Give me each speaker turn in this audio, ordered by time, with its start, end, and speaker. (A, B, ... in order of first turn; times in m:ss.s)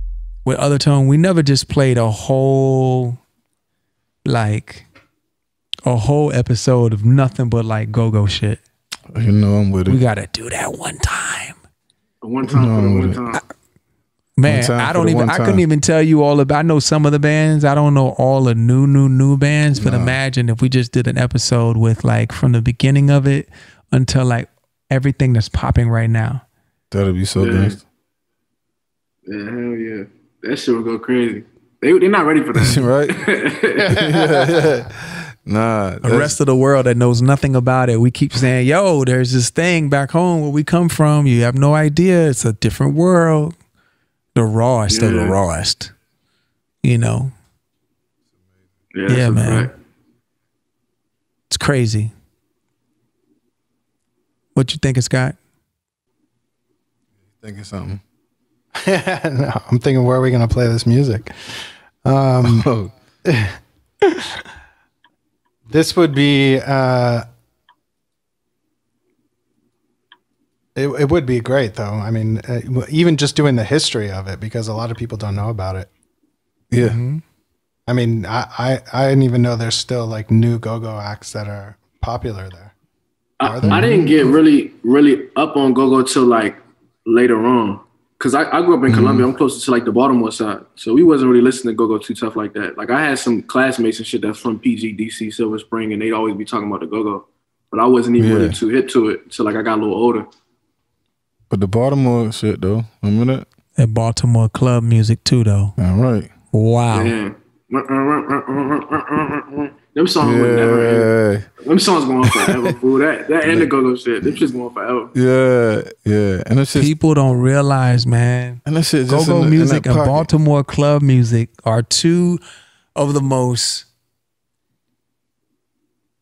0:00.4-0:03.2 A
0:04.2-0:04.8 A
0:05.8-0:08.6 A
0:09.1-0:10.0 B
0:09.9-0:11.6 A
0:12.2-0:13.4 C
0:12.4-0:13.2 B
0:14.4-0:26.4 A
0:14.4-0:15.6 B
0:19.7-0:20.2 B
0:26.9-0:27.8 B
0:27.4-0:27.8 C
0:29.2-0:33.9 C
0:32.5-0:33.2 B
0:33.8-0:34.7 D
0:33.9-0:36.4 B
0:36.0-0:43.5 A
0:44.3-0:45.9 A
0:44.9-0:45.4 C
0:46.8-0:47.3 A
0:48.9-0:49.7 C
0:49.1-0:49.7 A
0:51.5-0:52.1 A
0:54.5-0:55.4 A
0:57.4-0:58.0 B
0:58.8-1:02.7 D
1:02.4-1:02.9 B
1:03.2-1:03.5 D
1:05.7-1:07.2 D
1:10.8-1:15.9 D
1:16.7-1:17.0 B
1:16.8-1:17.2 A
1:17.9-1:22.7 D
1:23.4-1:40.3 C
1:23.4-1:24.3 D
1:28.9-1:29.3 B
1:38.2-1:38.6 B
1:41.5-1:43.4 B
1:43.8-1:45.7 A
1:45.8-1:46.3 B
1:46.5-1:47.1 A
1:46.9-1:51.1 C
1:50.2-1:51.5 B
1:51.6-1:55.1 C
1:52.2-1:52.6 B
1:53.4-1:53.7 B
1:55.1-1:56.9 B
1:56.7-2:02.4 A
1:58.6-2:00.3 B
2:02.9-2:03.9 A